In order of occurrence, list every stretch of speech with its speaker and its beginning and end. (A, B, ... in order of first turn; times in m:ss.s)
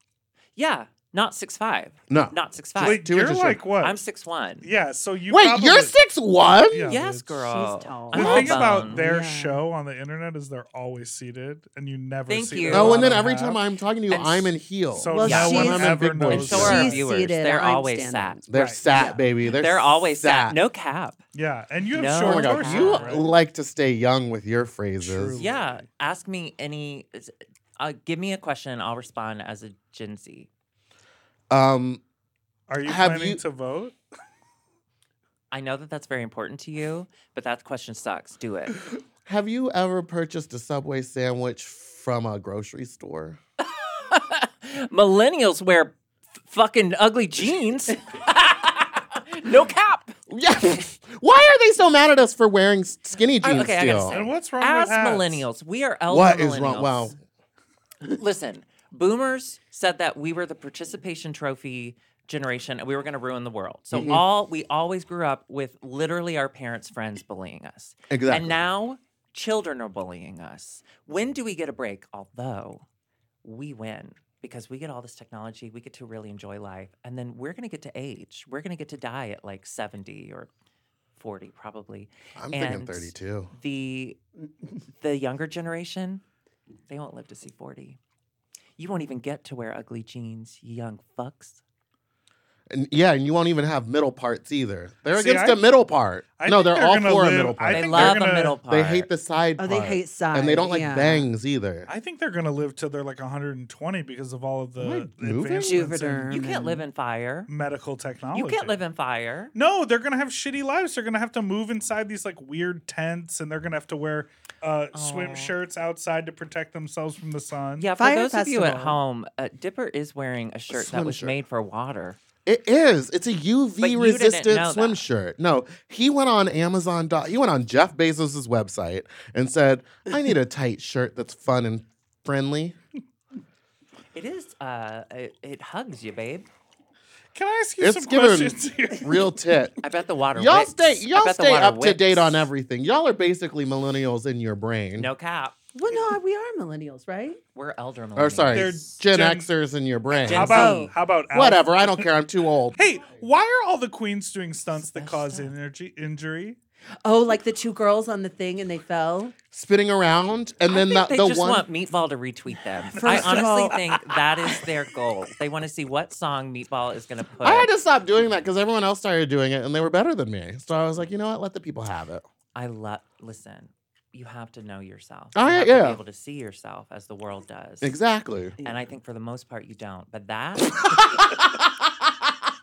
0:00.6-0:03.0 A
0:02.1-0:03.6 B
0:02.8-0:04.0 C
0:03.8-0:04.7 A
0:04.6-0:06.0 C
0:05.3-0:07.0 B
0:06.7-0:07.3 C
0:06.9-0:09.0 A
0:07.5-0:09.6 D
0:08.1-0:13.6 C
0:12.3-0:13.2 A
0:12.7-0:17.0 B
0:14.1-0:14.6 A
0:14.9-0:17.0 C
0:15.1-0:19.0 D
0:15.2-0:18.4 A
0:18.5-0:20.6 B
0:18.5-0:18.8 C
0:18.9-0:21.2 A
0:21.3-0:23.3 C
0:21.9-0:23.2 A
0:22.2-0:25.4 B
0:25.0-0:25.9 C
0:25.4-0:30.5 A
0:31.5-0:32.0 B
0:32.7-0:34.0 C
0:32.8-0:33.4 B
0:35.5-0:38.8 A
0:39.2-0:43.4 B
0:43.6-0:50.2 A
0:50.3-0:54.2 B
0:53.4-0:57.1 A
0:54.1-0:55.4 C
0:56.1-0:57.2 B
0:58.2-1:12.9 A
1:03.9-1:04.2 B
1:08.1-1:08.6 B
1:13.4-1:20.5 A
1:21.2-1:24.2 A
1:22.4-1:23.5 B
1:25.0-1:26.2 A
1:26.9-1:28.0 A
1:28.8-1:31.6 A
1:32.7-1:41.9 B
1:35.1-1:35.6 C
1:36.4-1:38.6 C
1:37.7-1:39.1 A
1:39.6-1:41.3 D
1:41.9-1:46.4 C
1:44.8-1:45.9 B
1:45.6-1:46.8 D
1:46.3-1:47.5 A
1:47.5-1:48.8 C
1:48.3-1:49.5 A
1:49.5-1:57.9 C
1:54.9-1:55.6 A
1:57.8-2:02.2 A
1:58.0-1:59.0 D
2:00.7-2:01.4 B
2:02.4-2:12.8 B
2:03.8-2:05.0 A
2:14.1-2:16.5 A
2:17.3-2:19.4 C
2:17.8-2:19.8 B
2:19.8-2:22.5 A
2:20.4-2:25.1 B
2:25.0-2:25.6 A
2:25.7-2:27.4 D
2:27.6-2:29.0 A
2:28.2-2:30.8 B
2:28.5-2:29.5 C
2:30.2-2:30.9 A
2:30.3-2:32.1 C
2:30.5-2:30.9 D
2:31.3-2:32.8 B
2:32.8-2:36.6 C
2:34.8-2:35.5 A
2:37.0-2:39.4 D
2:39.5-2:41.7 B
2:40.7-2:47.7 A
2:42.9-2:43.8 D
2:43.0-2:44.7 C
2:47.4-2:52.2 B
2:52.6-2:58.0 A
2:55.4-2:56.0 B
2:57.8-2:58.6 B
2:58.6-2:58.9 D
2:58.6-3:01.0 A
3:00.7-3:02.3 B